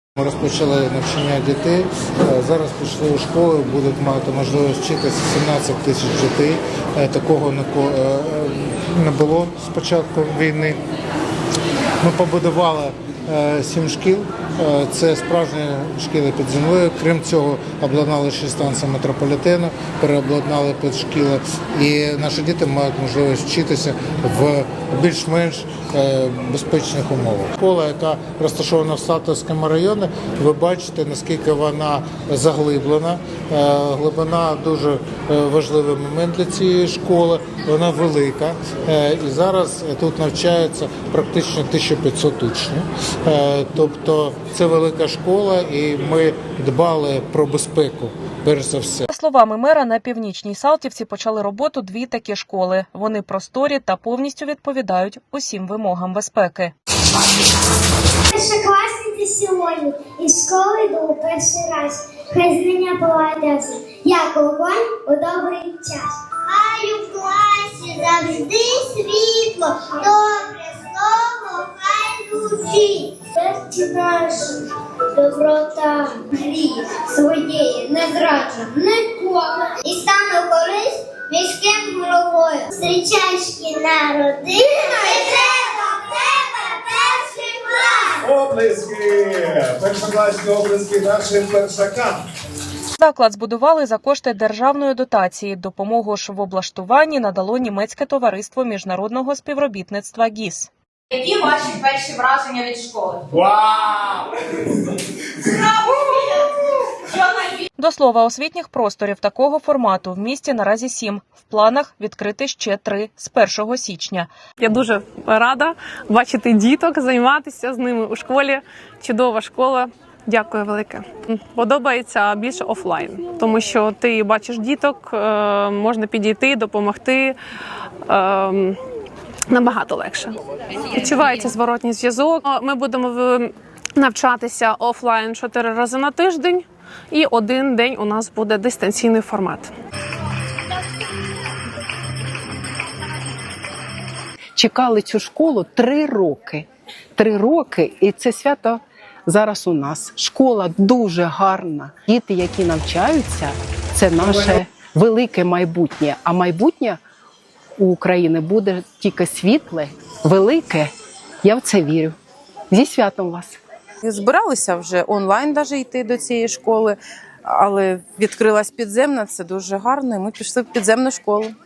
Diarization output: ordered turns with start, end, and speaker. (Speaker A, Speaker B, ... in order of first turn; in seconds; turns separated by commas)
Speaker A: 0.2-10.8, Speaker A: 12.0-49.1, Speaker B: 49.1-56.7, Speaker C: 58.3-88.2, Speaker D: 88.2-92.2, Speaker B: 93.0-100.7, Speaker E: 101.1-103.8, Speaker D: 103.7-104.2, Speaker E: 105.7-106.4, Speaker E: 107.1-107.6, Speaker B: 107.8-114.3, Speaker F: 114.6-127.3, Speaker F: 128.1-128.8, Speaker F: 129.5-130.3, Speaker F: 130.9-139.7, Speaker G: 144.5-157.0, Speaker G: 157.8-160.9, Speaker G: 161.4-162.2, Speaker G: 162.7-163.6, Speaker H: 164.0-171.5